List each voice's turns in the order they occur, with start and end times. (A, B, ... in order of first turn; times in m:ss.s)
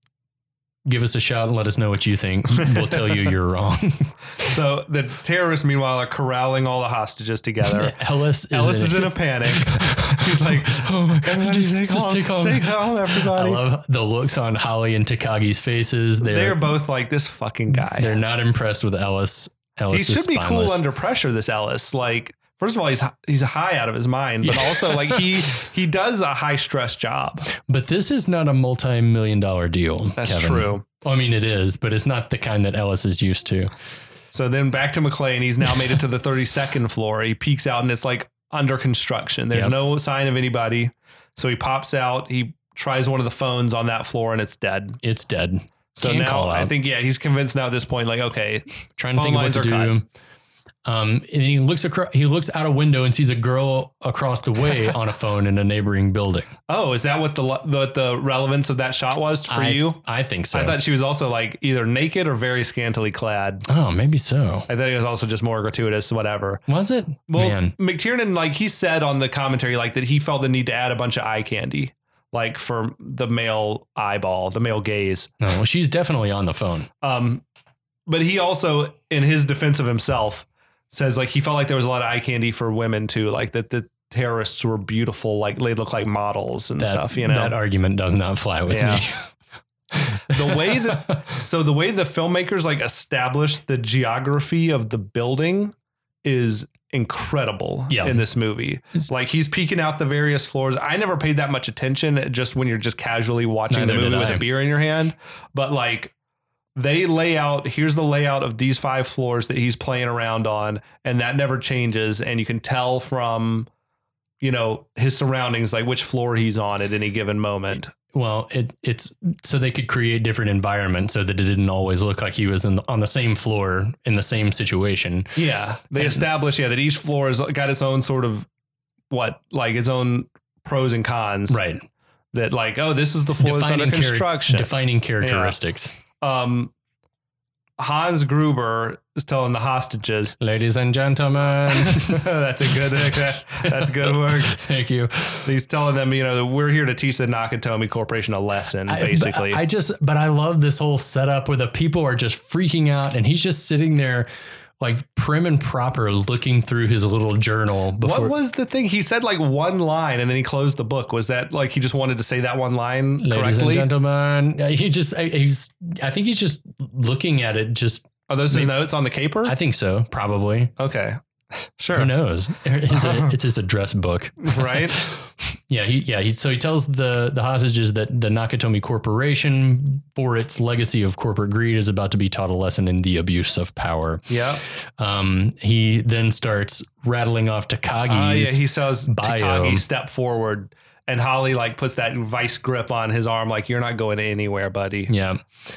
0:00.8-0:04.1 A
0:02.5-0:03.2 B
0:04.4-0:07.9 B
0:07.6-0:16.6 A
0:08.5-0:13.6 B
0:16.2-0:18.2 B
0:17.7-0:20.8 A
0:19.9-0:27.5 B
0:24.4-0:25.2 A
0:27.6-0:33.7 A
0:30.2-0:30.8 B
0:34.3-0:45.0 B
0:45.0-0:46.7 A
0:45.9-0:49.9 B
0:49.0-0:50.1 A
0:50.8-0:56.5 A
0:56.7-1:00.0 B
0:59.5-1:00.8 A
1:00.5-1:03.6 B
1:03.6-1:04.7 A
1:04.7-1:06.6 B
1:06.7-1:07.7 A
1:07.3-1:15.3 B
1:15.4-1:16.9 A
1:17.0-1:17.4 B
1:18.1-1:27.6 B
1:26.8-1:29.3 A
1:28.7-1:29.0 B
1:30.0-1:31.2 A
1:30.3-1:46.1 B
1:37.9-1:38.2 A
1:43.7-1:44.4 A
1:46.7-1:53.7 B
1:54.4-1:57.9 B
1:58.1-2:05.4 A
2:05.4-2:08.5 B
2:06.0-2:06.2 A
2:09.1-2:11.6 B
2:11.5-2:11.8 A
2:12.3-2:14.7 B
2:13.4-2:16.0 A
2:15.2-2:15.6 B
2:16.2-2:16.7 B
2:17.8-2:20.4 B
2:20.4-2:22.3 A
2:21.7-2:24.6 B
2:23.7-2:25.5 A
2:25.4-2:29.6 B
2:28.9-2:34.3 A
2:34.8-2:38.3 A
2:38.0-2:43.9 B
2:43.2-2:48.7 A
2:48.3-2:49.5 B
2:49.4-2:50.7 A
2:50.8-2:52.1 B
2:51.9-3:04.3 A
2:52.9-2:53.3 B
2:54.4-2:55.0 B
3:04.3-3:04.6 B
3:05.0-3:09.8 A
3:08.1-3:15.1 B
3:15.1-3:15.4 A